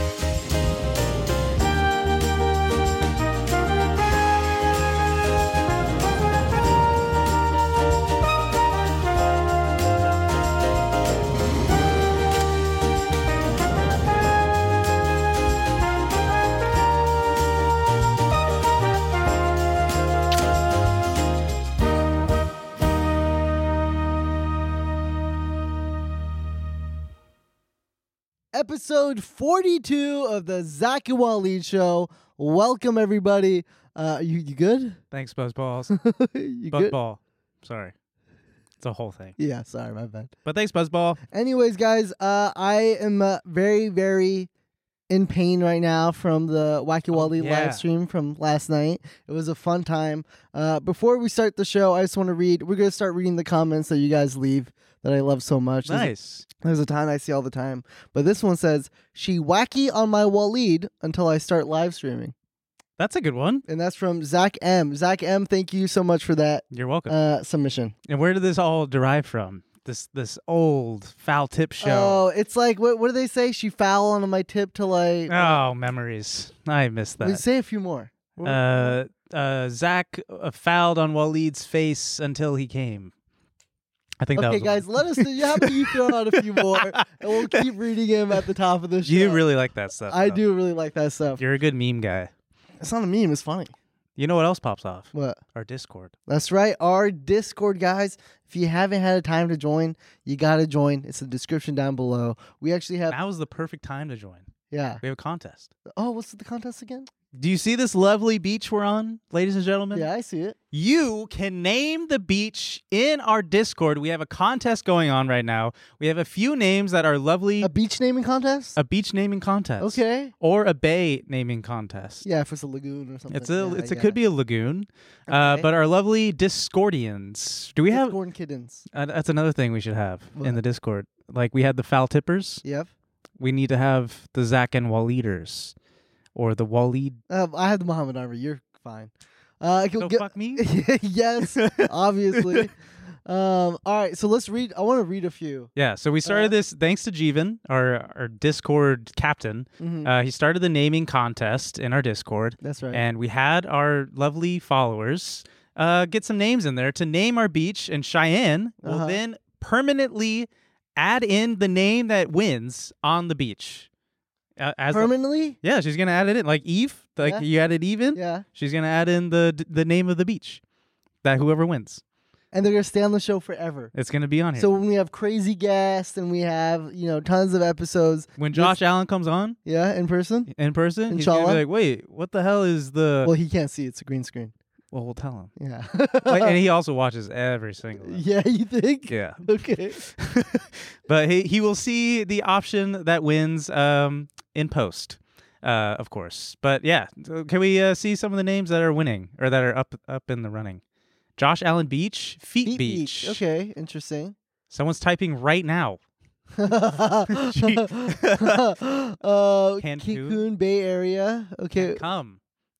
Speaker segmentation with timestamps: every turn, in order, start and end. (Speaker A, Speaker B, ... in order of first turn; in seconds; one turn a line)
Speaker A: 28.5-35.0
Speaker B: 35.1-35.9
Speaker A: 35.9-37.0
Speaker B: 36.7-37.9
Speaker B: 38.8-39.4
Speaker A: 39.4-40.3
Speaker B: 40.5-41.2
Speaker A: 41.3-44.5
Speaker A: 45.1-56.1
Speaker B: 47.1-47.8
Speaker B: 55.9-56.5
Speaker A: 56.6-62.3
Speaker B: 63.0-63.6
Speaker A: 63.7-68.0
Speaker B: 66.7-67.2
Speaker B: 68.1-72.2
Speaker A: 71.8-75.6
Speaker B: 75.3-77.4
Speaker A: 77.2-79.0
Speaker B: 78.4-83.1
Speaker B: 84.2-87.7
Speaker A: 84.4-89.4
Speaker B: 89.0-90.4
Speaker A: 90.1-91.4
Speaker B: 91.4-92.3
Speaker A: 92.8-93.7
Speaker B: 94.2-96.1
Speaker A: 95.1-95.4
Speaker A: 96.3-103.2
Speaker B: 103.1-104.5
Speaker A: 104.7-105.0
Speaker B: 105.0-105.7
Speaker A: 105.9-107.1
Speaker B: 107.3-110.1
Speaker A: 109.9-110.6
Speaker B: 110.7-117.7
Speaker A: 117.6-118.8
Speaker B: 118.8-122.2
Speaker A: 119.8-120.3
Speaker A: 122.2-124.2
Speaker B: 123.3-128.2
Speaker A: 125.3-125.7
Speaker A: 127.9-128.9
Speaker B: 128.9-132.6
Speaker A: 132.6-132.9
Speaker B: 133.4-135.7
Speaker B: 136.3-137.2
Speaker A: 137.3-142.8
Speaker B: 140.0-140.7
Speaker B: 141.4-142.7
Speaker A: 143.3-145.7
Speaker B: 145.8-163.9
Speaker A: 146.2-146.6
Speaker A: 149.8-150.1
Speaker A: 152.6-153.0
Speaker A: 158.8-159.2
Speaker B: 164.6-170.6
Speaker A: 164.9-165.6
Speaker A: 168.2-168.4
Speaker B: 171.2-172.0
Speaker A: 172.5-173.9
Speaker B: 173.9-174.7
Speaker A: 174.6-178.8
Speaker B: 178.4-179.6
Speaker A: 179.7-180.5
Speaker B: 180.5-183.3
Speaker A: 181.1-181.6
Speaker A: 183.2-184.5
Speaker B: 184.9-185.5
Speaker A: 185.6-186.6
Speaker B: 186.2-188.3
Speaker A: 188.0-190.0
Speaker B: 189.1-189.4
Speaker B: 190.0-200.8
Speaker B: 201.4-203.4
Speaker A: 202.7-204.4
Speaker B: 204.7-206.0
Speaker A: 206.6-212.0
Speaker B: 207.3-208.6
Speaker B: 209.8-210.4
Speaker B: 211.8-212.4